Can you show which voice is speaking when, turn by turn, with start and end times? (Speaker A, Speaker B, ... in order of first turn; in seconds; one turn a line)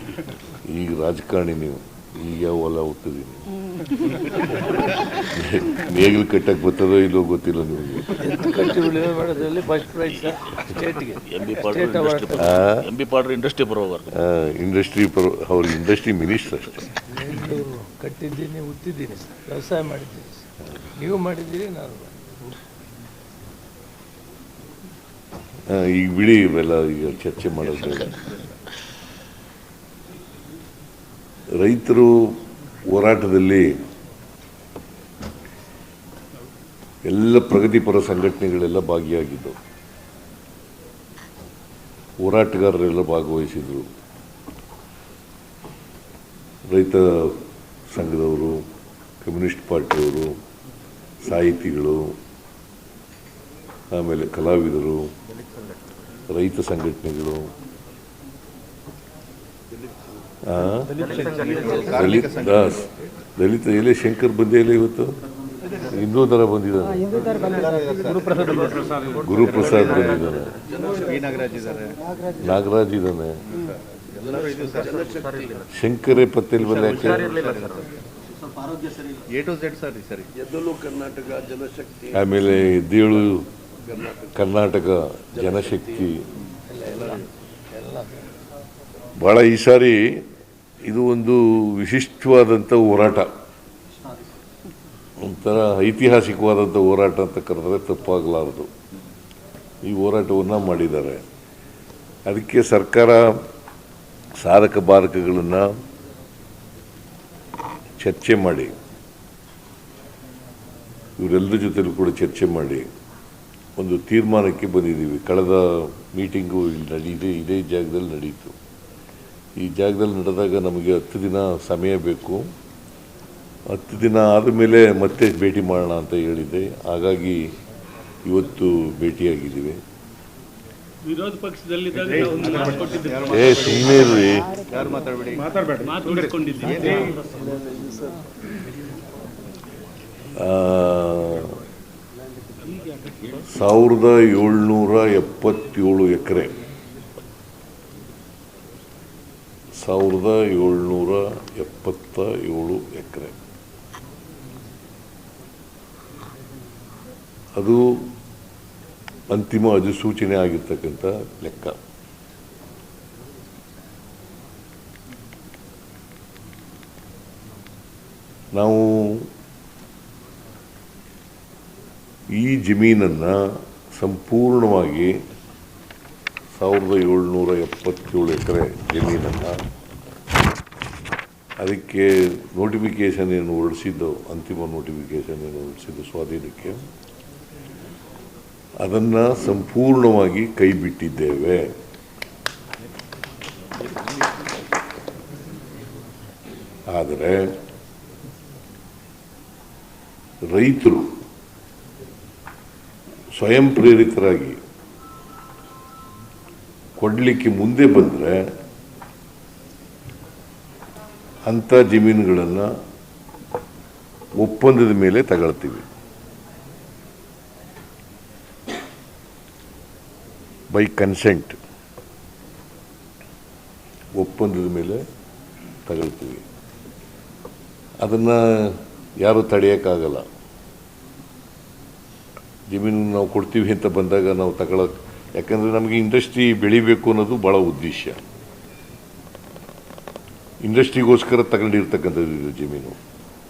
Speaker A: 0.6-3.5
Speaker A: 5.1-8.2
Speaker B: 8.2-12.6
Speaker C: 10.1-10.7
Speaker C: 11.2-14.1
Speaker A: 12.4-12.9
Speaker A: 14.1-16.9
Speaker B: 17.0-20.4
Speaker B: 21.0-22.1
Speaker A: 25.7-28.2
Speaker A: 31.6-33.7
Speaker A: 37.1-39.6
Speaker A: 42.2-43.9
Speaker A: 46.7-48.7
Speaker A: 49.2-50.4
Speaker A: 51.2-52.1
Speaker A: 53.9-55.1
Speaker A: 56.3-57.5
Speaker A: 60.5-61.1
Speaker D: 61.0-62.3
Speaker A: 61.8-65.2
Speaker A: 65.8-67.1
Speaker D: 67.3-69.0
Speaker A: 69.1-70.6
Speaker D: 71.0-72.0
Speaker A: 72.4-73.4
Speaker D: 74.3-75.0
Speaker A: 75.7-77.5
Speaker D: 77.5-77.9
Speaker D: 79.3-80.3
Speaker C: 80.4-82.0
Speaker A: 82.1-83.5
Speaker A: 84.2-86.2
Speaker B: 86.7-87.2
Speaker B: 87.8-88.1
Speaker A: 89.2-90.0
Speaker A: 90.9-93.3
Speaker A: 95.2-98.7
Speaker A: 99.8-101.2
Speaker A: 102.3-103.4
Speaker A: 104.4-105.7
Speaker A: 108.0-108.8
Speaker A: 111.2-112.9
Speaker A: 113.8-118.6
Speaker A: 119.6-122.5
Speaker A: 123.7-127.4
Speaker A: 128.3-129.8
Speaker D: 132.0-133.8
Speaker A: 133.2-134.7
Speaker D: 134.8-135.4
Speaker D: 136.6-137.2
Speaker A: 140.4-141.5
Speaker A: 143.5-146.6
Speaker A: 149.8-153.4
Speaker A: 157.6-158.1
Speaker A: 159.3-161.8
Speaker A: 168.6-169.3
Speaker A: 172.3-173.4
Speaker A: 173.9-175.2
Speaker A: 176.6-179.6
Speaker A: 181.6-186.9
Speaker A: 188.8-191.7
Speaker A: 196.9-197.5
Speaker A: 200.5-201.1
Speaker A: 203.4-204.6
Speaker A: 207.0-208.5
Speaker A: 211.5-212.7
Speaker A: 214.4-215.9
Speaker A: 220.7-221.6
Speaker A: 224.2-225.0
Speaker A: 225.9-226.4
Speaker A: 228.0-230.3
Speaker A: 232.7-238.2
Speaker A: 240.6-243.0